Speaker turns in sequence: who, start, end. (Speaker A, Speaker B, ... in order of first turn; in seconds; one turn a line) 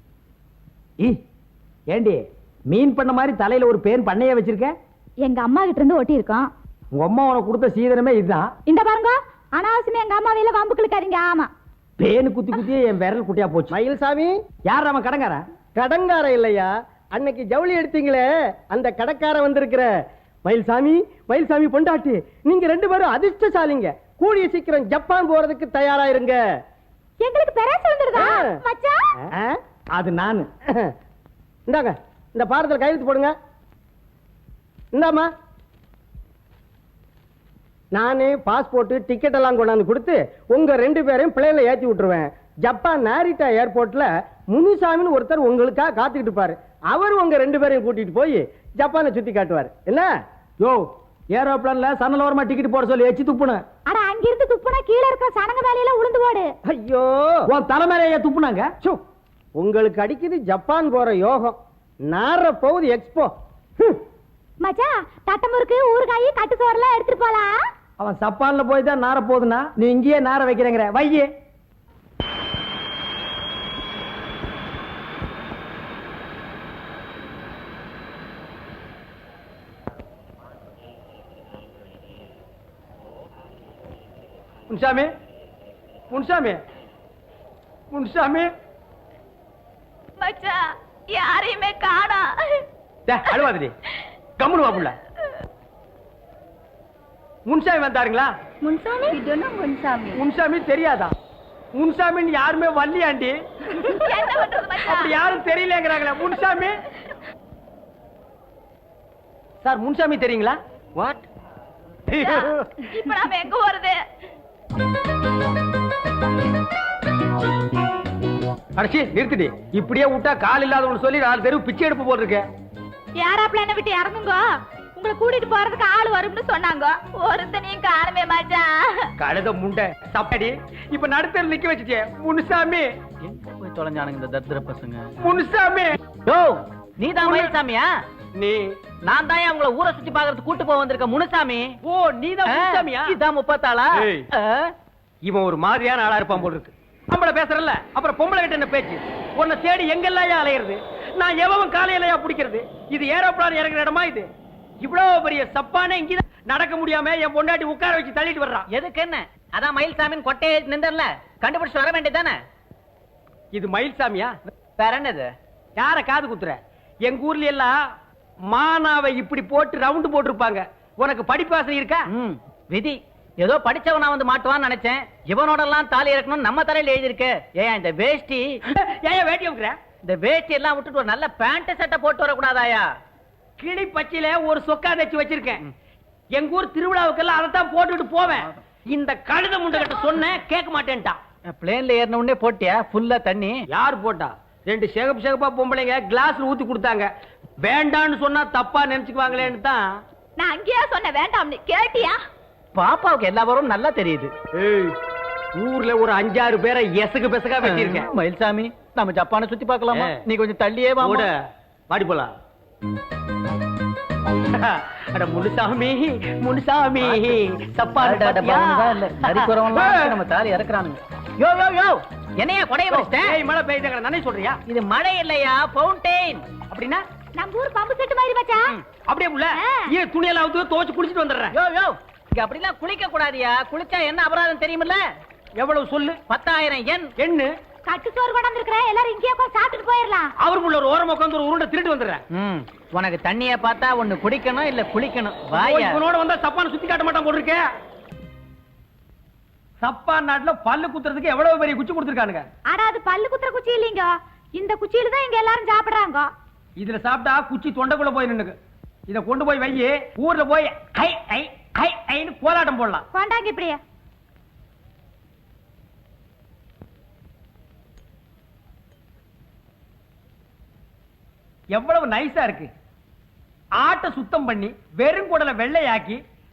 Speaker A: 1.9-4.7
Speaker B: 5.2-6.5
Speaker A: 6.9-8.5
Speaker B: 8.7-11.5
Speaker A: 12.0-13.8
Speaker C: 13.7-14.3
Speaker A: 14.7-15.4
Speaker C: 15.8-19.9
Speaker C: 20.4-26.4
Speaker B: 27.2-29.1
Speaker C: 28.1-28.5
Speaker A: 29.9-30.5
Speaker C: 31.7-33.4
Speaker C: 34.9-35.3
Speaker C: 37.9-50.1
Speaker A: 50.6-53.6
Speaker B: 53.9-56.5
Speaker C: 56.7-57.4
Speaker A: 57.5-58.8
Speaker C: 59.6-61.6
Speaker C: 62.1-64.0
Speaker B: 64.6-67.6
Speaker A: 68.0-71.3
Speaker A: 84.7-85.1
Speaker A: 86.1-86.6
Speaker A: 87.9-88.5
Speaker B: 90.2-92.6
Speaker A: 93.1-93.7
Speaker A: 94.4-95.0
Speaker A: 97.5-98.3
Speaker B: 98.7-100.2
Speaker A: 100.1-101.1
Speaker A: 101.8-103.9
Speaker B: 103.8-105.2
Speaker A: 104.8-106.8
Speaker A: 109.6-111.2
Speaker A: 112.1-112.7
Speaker B: 112.2-114.0
Speaker A: 118.8-122.4
Speaker B: 123.2-129.1
Speaker A: 129.2-132.9
Speaker D: 133.2-135.4
Speaker A: 135.2-136.0
Speaker D: 136.1-137.9
Speaker A: 137.2-137.6
Speaker A: 138.3-138.8
Speaker D: 139.1-141.8
Speaker A: 141.8-143.2
Speaker D: 142.5-144.7
Speaker A: 143.9-144.3
Speaker A: 145.3-154.3
Speaker A: 154.8-158.7
Speaker D: 158.7-162.4
Speaker A: 163.5-164.3
Speaker D: 164.8-165.3
Speaker A: 165.8-167.7
Speaker A: 168.5-172.1
Speaker D: 172.1-178.6
Speaker A: 178.7-179.8
Speaker D: 180.0-182.9
Speaker A: 183.6-185.7
Speaker A: 186.3-191.2
Speaker D: 191.5-193.6
Speaker A: 193.7-197.1
Speaker A: 197.6-199.8
Speaker B: 200.4-202.2
Speaker D: 202.8-204.3
Speaker A: 204.5-204.9
Speaker A: 205.6-208.1
Speaker D: 207.6-211.3
Speaker A: 209.9-210.2
Speaker A: 211.0-211.4
Speaker A: 211.9-212.3
Speaker A: 214.5-220.1
Speaker D: 218.0-223.4
Speaker A: 222.9-224.6
Speaker D: 224.7-226.4
Speaker A: 226.7-227.0
Speaker B: 227.4-228.7
Speaker A: 229.1-231.6
Speaker B: 229.6-229.9
Speaker D: 231.5-235.0
Speaker A: 235.6-236.2
Speaker D: 236.3-237.1
Speaker A: 237.2-237.5
Speaker B: 237.9-240.3
Speaker A: 240.4-242.2
Speaker D: 242.3-246.0
Speaker A: 245.5-247.7
Speaker A: 249.8-252.4
Speaker B: 252.7-256.3
Speaker A: 256.8-258.6
Speaker A: 259.1-263.1
Speaker B: 263.1-263.8
Speaker A: 271.7-272.7
Speaker A: 273.8-276.2